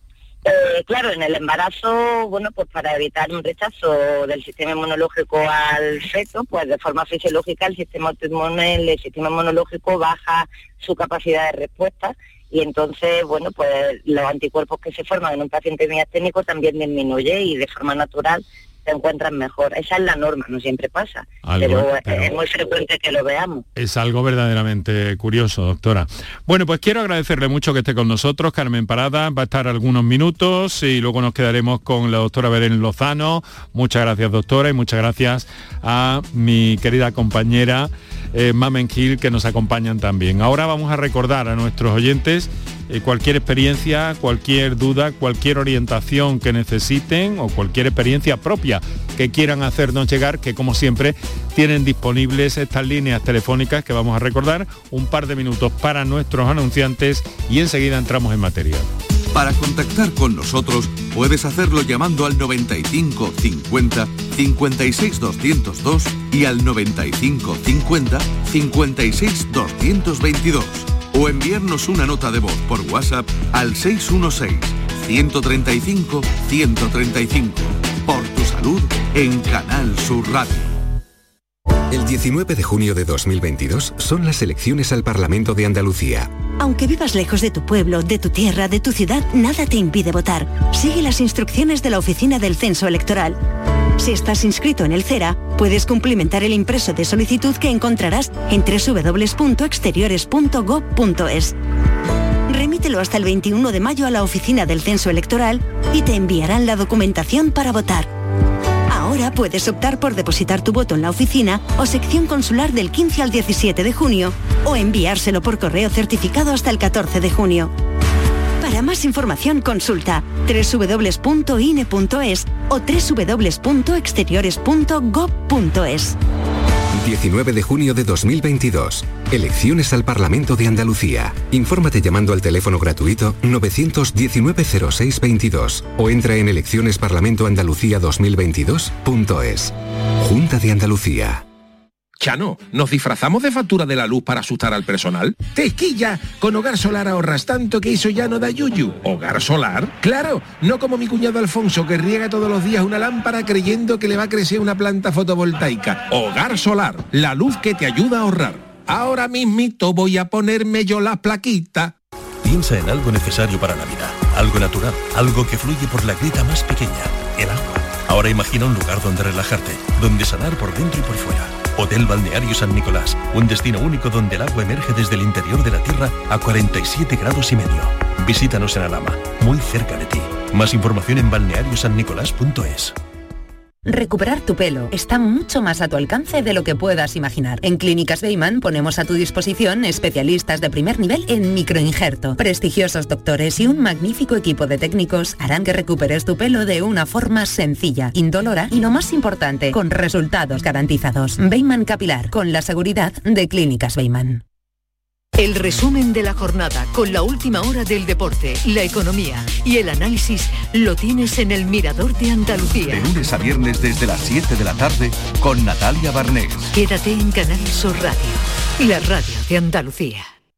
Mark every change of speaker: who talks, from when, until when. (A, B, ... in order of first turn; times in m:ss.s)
0:00.4-0:23.6 A
0:21.4-0:22.4 B
0:23.7-0:58.9 B
0:59.3-1:20.7 C
1:21.9-1:26.3 D
1:26.5-1:33.4 E
1:34.0-1:41.6 E
1:42.4-1:48.1 E
1:48.9-1:57.7 E
1:58.6-2:06.2 E
2:06.9-2:21.4 D
2:22.2-2:41.9 F
2:42.4-3:03.0 G
3:03.8-3:24.4 H
3:25.4-3:33.0 I
3:32.9-3:33.8 G
3:33.0-3:36.6 C
3:36.7-3:40.3 I